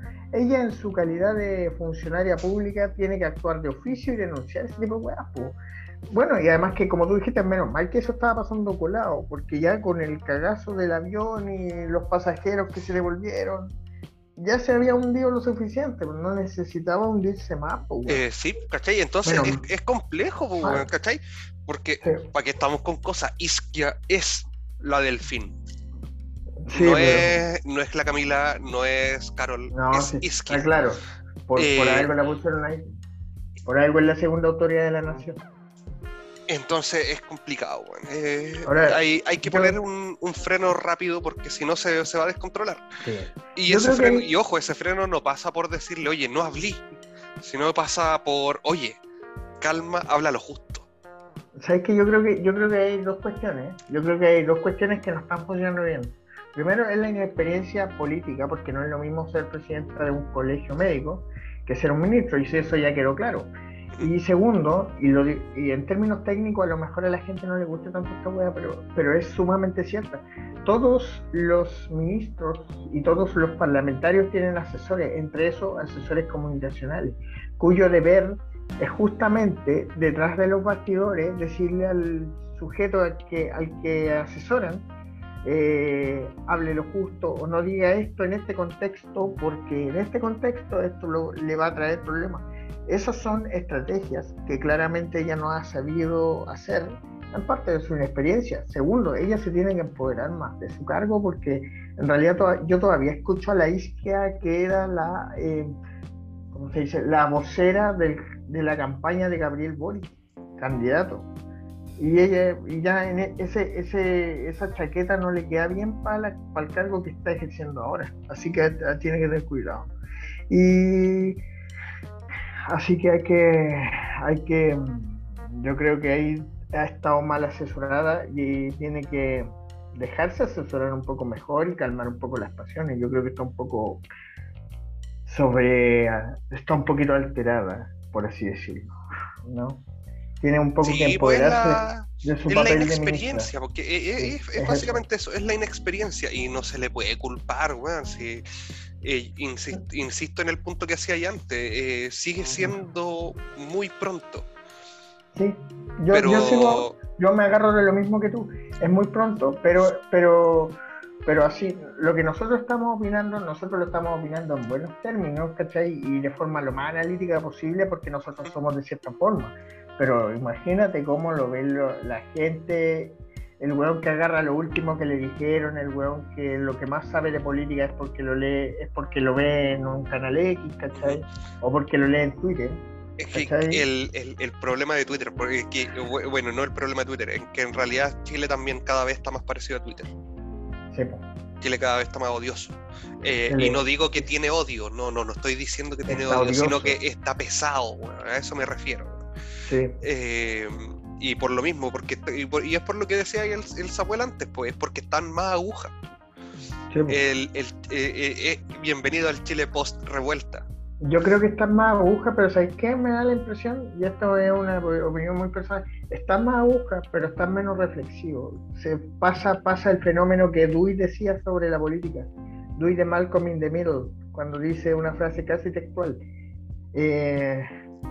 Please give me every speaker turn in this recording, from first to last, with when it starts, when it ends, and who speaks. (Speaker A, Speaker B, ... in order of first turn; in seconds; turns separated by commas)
Speaker A: 0.3-5.6, Speaker A: 6.1-13.8, Speaker A: 14.4-18.2, Speaker B: 18.1-25.6, Speaker A: 19.3-19.6, Speaker A: 26.6-27.4, Speaker B: 26.7-30.7, Speaker A: 29.7-32.9, Speaker B: 31.6-32.1, Speaker A: 33.7-35.4, Speaker B: 36.5-42.8, Speaker A: 38.7-39.8, Speaker A: 43.0-44.2, Speaker B: 43.6-46.9, Speaker B: 47.4-49.0, Speaker B: 49.6-50.9, Speaker A: 51.6-84.9, Speaker A: 85.5-105.8, Speaker A: 106.5-111.3, Speaker A: 112.0-119.9, Speaker A: 120.5-121.4, Speaker A: 122.7-134.1, Speaker A: 135.3-138.9, Speaker A: 139.5-139.8, Speaker A: 140.4-143.5, Speaker B: 140.8-148.4, Speaker A: 144.2-145.0, Speaker B: 149.0-154.5, Speaker A: 155.3-182.8, Speaker B: 156.1-156.9, Speaker B: 183.2-190.1, Speaker A: 183.3-183.8, Speaker A: 190.9-191.2, Speaker B: 191.6-199.2, Speaker A: 193.5-194.3, Speaker A: 196.1-197.0, Speaker A: 199.7-199.9, Speaker B: 200.0-205.9, Speaker A: 206.9-207.2, Speaker B: 207.1-210.7, Speaker A: 211.0-226.2, Speaker A: 226.9-227.7